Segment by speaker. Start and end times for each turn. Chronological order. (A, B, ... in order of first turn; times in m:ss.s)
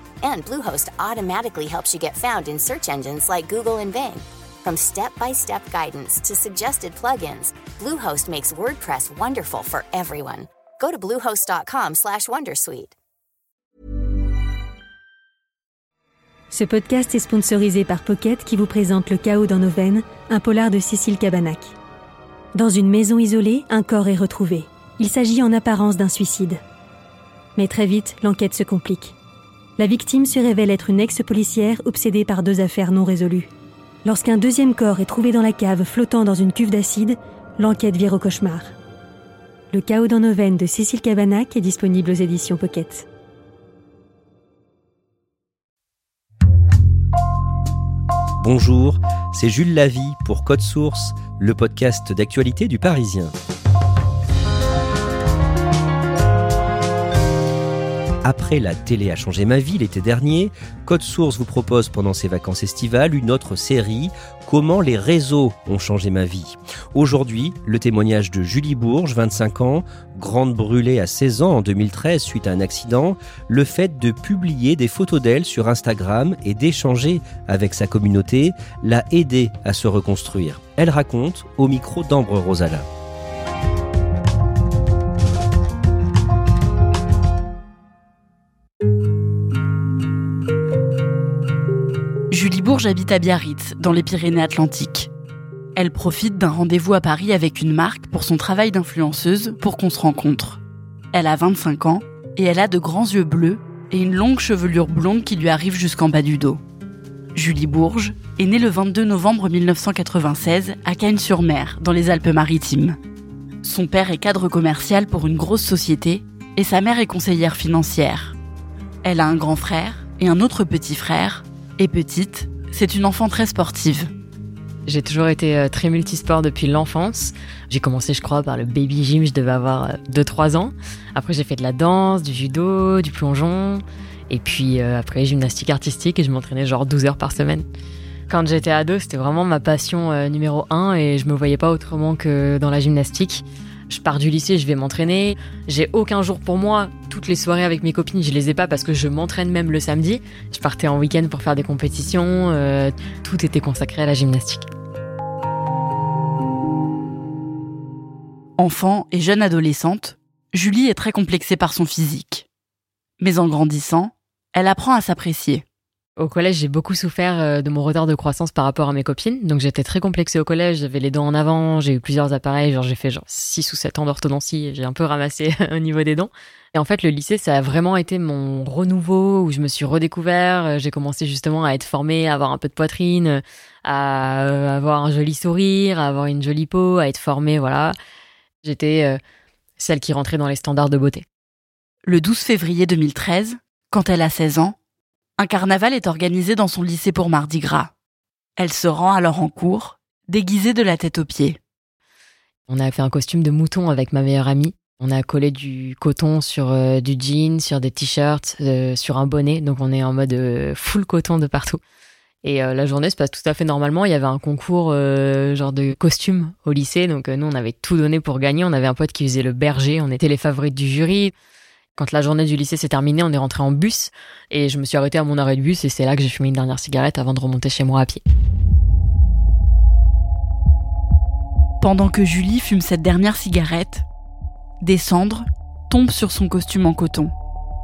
0:00.2-0:12.9 A
0:16.5-0:21.7 B
0:22.5-0:26.6 B
0:27.6-0:29.1 B
0:29.8-0:33.5 B
0:34.0-0:38.7 B
0:39.7-0:43.0 B
0:48.4-0:53.3 C
0:58.2-1:22.8 C
1:32.3-1:35.1 D
1:35.8-1:40.6 D
1:41.1-1:46.6 D
1:47.3-1:53.0 D
1:53.6-1:58.4 D
1:59.0-2:04.1 D
2:04.8-2:17.6 E
2:18.3-2:34.6 E
2:38.6-2:42.4 D
2:43.2-2:45.6 D
2:46.2-3:07.9 E
3:08.6-3:09.2 E
3:09.8-3:11.2 E
3:12.0-3:14.8 D
3:15.4-3:17.9 D
3:18.6-3:21.6 D
3:22.7-3:31.8 E
3:32.4-3:41.3 E
3:42.0-3:48.2 E
3:51.8-3:54.0 D
3:54.8-3:57.3 D